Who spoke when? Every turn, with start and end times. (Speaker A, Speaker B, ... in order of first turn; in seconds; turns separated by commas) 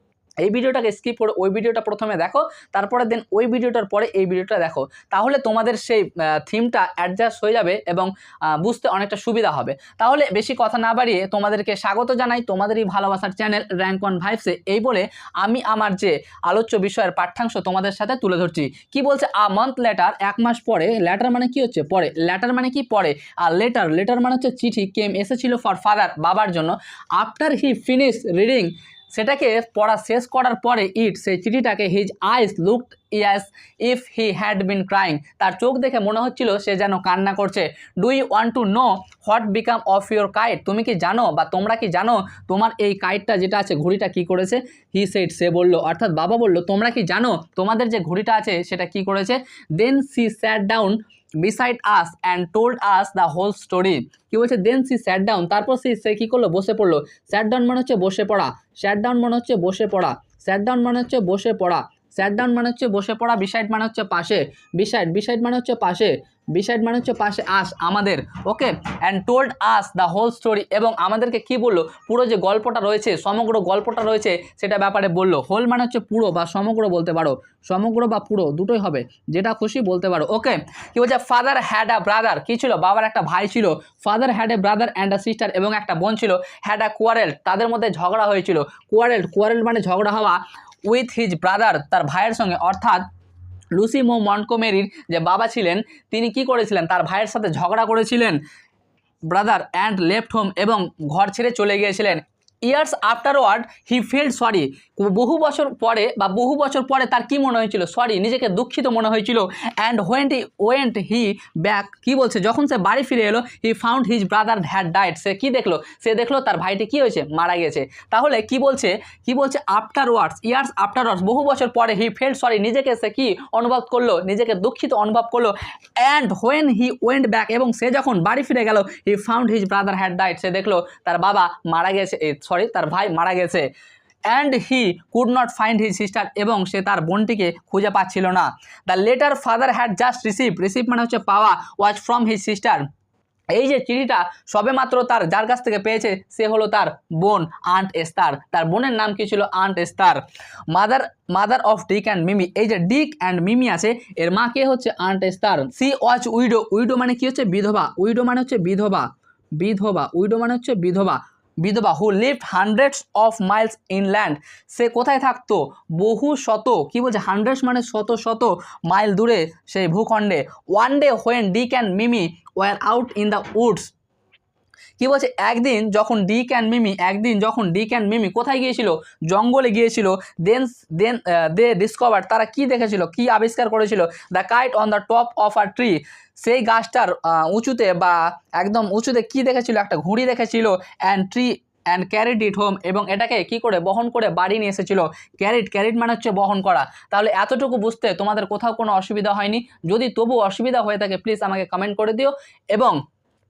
Speaker A: 0.4-93.0, Speaker A: 93.7-98.4, Speaker A: 99.3-133.7, Speaker A: 134.3-142.8, Speaker A: 143.5-173.9, Speaker A: 175.0-203.0